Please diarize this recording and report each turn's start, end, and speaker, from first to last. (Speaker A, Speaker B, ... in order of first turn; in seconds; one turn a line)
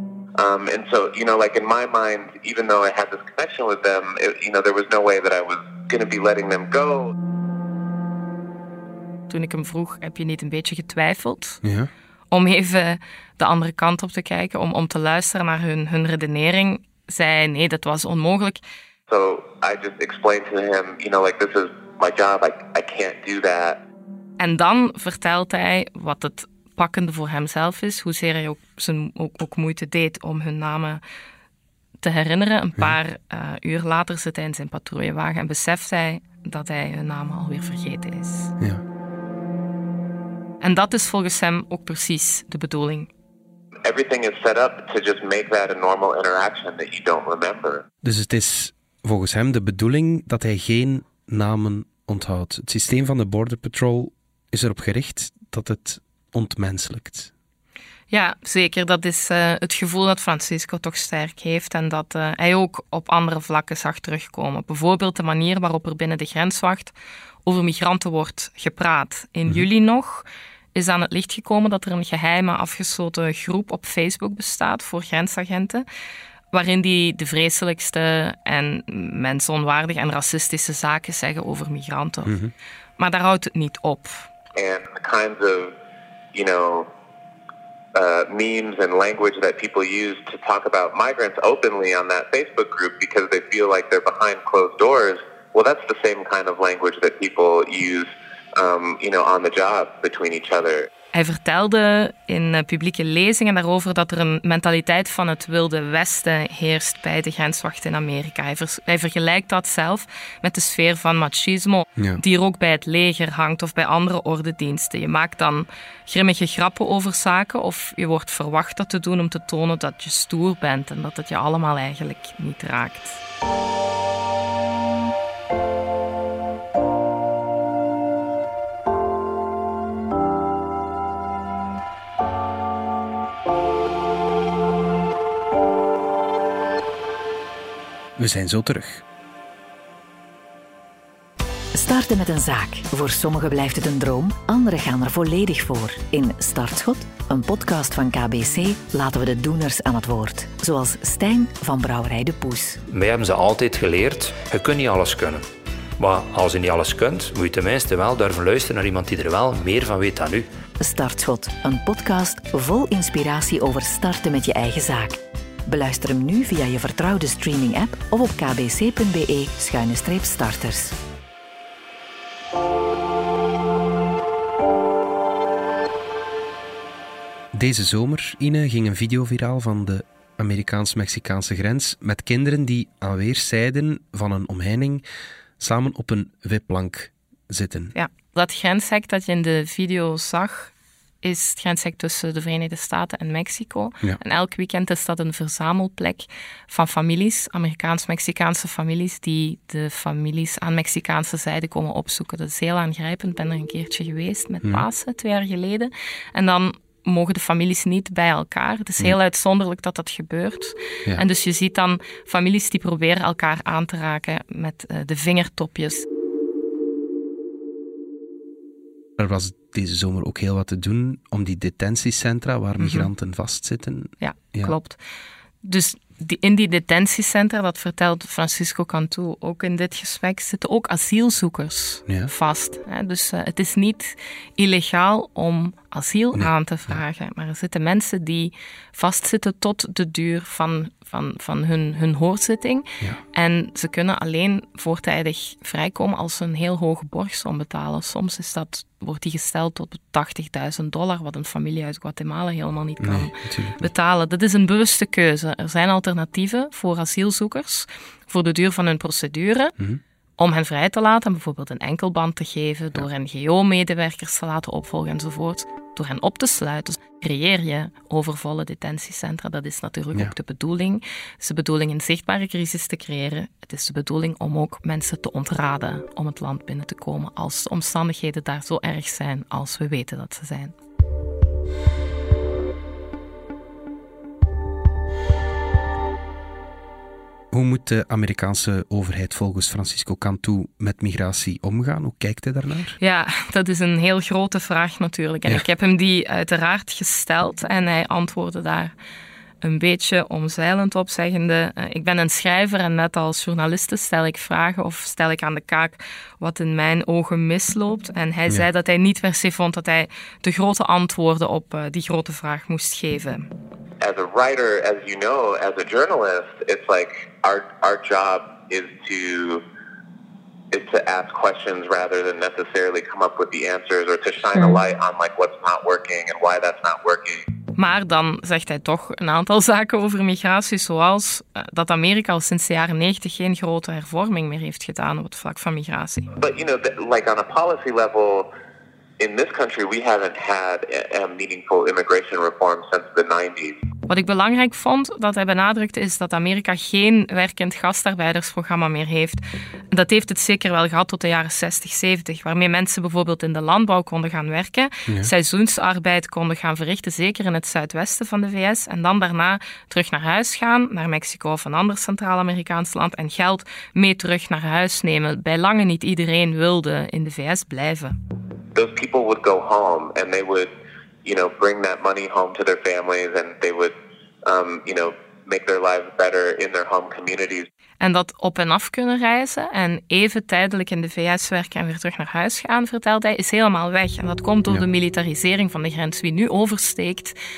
Speaker A: 0.4-7.1
Speaker B: 9.3-11.6
Speaker C: 11.6-11.9
Speaker B: 12.3-18.6
Speaker A: 19.1-23.8
Speaker B: 24.4-31.0
Speaker B: 32.0-38.5
Speaker B: 40.6-43.1
Speaker A: 43.8-47.8
Speaker C: 48.0-57.3
Speaker B: 58.1-75.8
Speaker B: 76.5-82.3
Speaker C: 82.2-82.5
Speaker B: 83.0-84.2
Speaker A: 84.5-85.7
Speaker A: 86.3-86.9
Speaker A: 87.9-100.9
Speaker B: 101.1-123.2
Speaker C: 138.2-139.0
Speaker D: 141.7-152.8
Speaker E: 152.9-155.4
Speaker E: 156.0-160.4
Speaker D: 160.8-170.9
Speaker C: 177.5-185.0
Speaker C: 185.6-187.9
Speaker B: 187.9-216.0
Speaker C: 219.2-224.8
Speaker B: 222.8-223.1
Speaker B: 224.2-225.0
Speaker B: 225.6-259.7
Speaker C: 236.3-237.0
Speaker C: 253.0-253.9
Speaker B: 260.4-280.7
Speaker C: 287.5-293.0
Speaker B: 293.0-298.9
Speaker B: 299.6-313.5
Speaker A: 314.0-319.6
Speaker A: 320.7-327.4
Speaker B: 327.7-336.3
Speaker A: 336.4-338.5
Speaker A: 339.2-343.8
Speaker B: 344.1-368.1
Speaker A: 368.7-370.7
Speaker A: 371.2-373.9
Speaker A: 374.4-377.7
Speaker B: 378.0-387.4